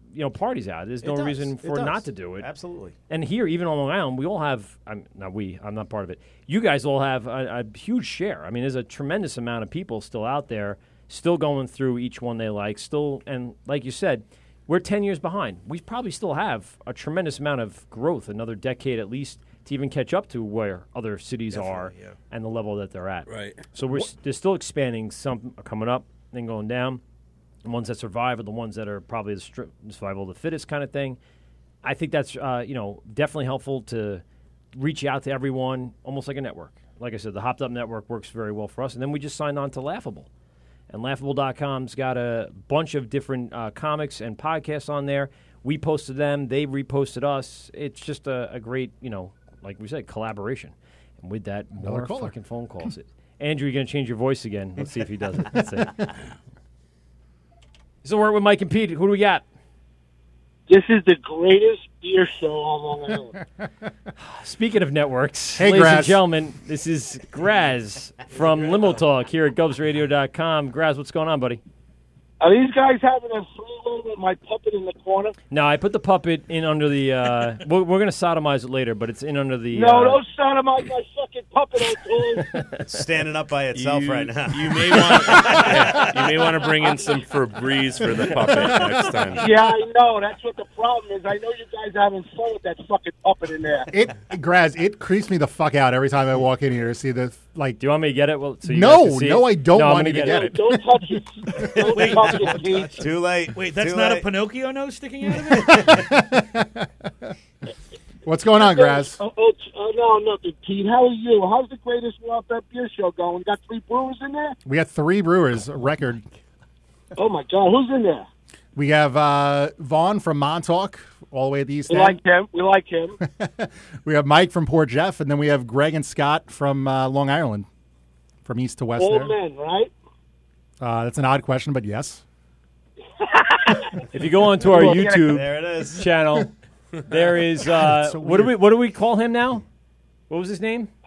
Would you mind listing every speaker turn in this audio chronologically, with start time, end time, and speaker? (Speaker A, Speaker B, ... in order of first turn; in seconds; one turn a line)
Speaker A: 0.1-2.5
Speaker B: 1.0-2.9
Speaker A: 3.1-27.0
Speaker C: 21.5-22.2
Speaker D: 23.3-23.6
Speaker A: 27.6-31.2
Speaker A: 31.8-34.2
Speaker A: 34.7-40.3
Speaker A: 40.9-56.0
Speaker E: 51.8-52.4
Speaker A: 58.0-59.4
Speaker F: 60.7-63.3
Speaker A: 64.2-71.6
Speaker E: 65.6-66.2
Speaker C: 68.3-69.0
Speaker F: 72.4-75.3
Speaker A: 75.5-80.2
Speaker F: 79.7-82.5
Speaker B: 82.8-86.0
Speaker D: 83.7-89.5
Speaker C: 85.5-86.1
Speaker F: 89.3-93.9
Speaker E: 93.9-97.8
Speaker A: 97.8-100.6
Speaker E: 98.6-100.8
Speaker F: 100.2-103.0
Speaker C: 101.9-102.7
Speaker B: 101.9-104.3
Speaker C: 103.5-106.0
Speaker B: 105.7-106.0
Speaker E: 105.7-106.9
Speaker E: 108.2-109.2
Speaker F: 108.5-114.5
Speaker E: 114.6-116.2
Speaker F: 117.2-118.3
Speaker E: 118.7-122.2
Speaker F: 121.9-123.2
Speaker E: 123.2-127.7
Speaker E: 128.4-129.3
Speaker F: 129.0-129.9
Speaker E: 130.8-132.2
Speaker F: 133.2-134.0
Speaker A: 134.1-136.5
Speaker F: 134.6-135.4
Speaker B: 134.8-136.1
Speaker A: 137.1-139.6
Speaker E: 137.8-138.6
Speaker A: 140.3-140.9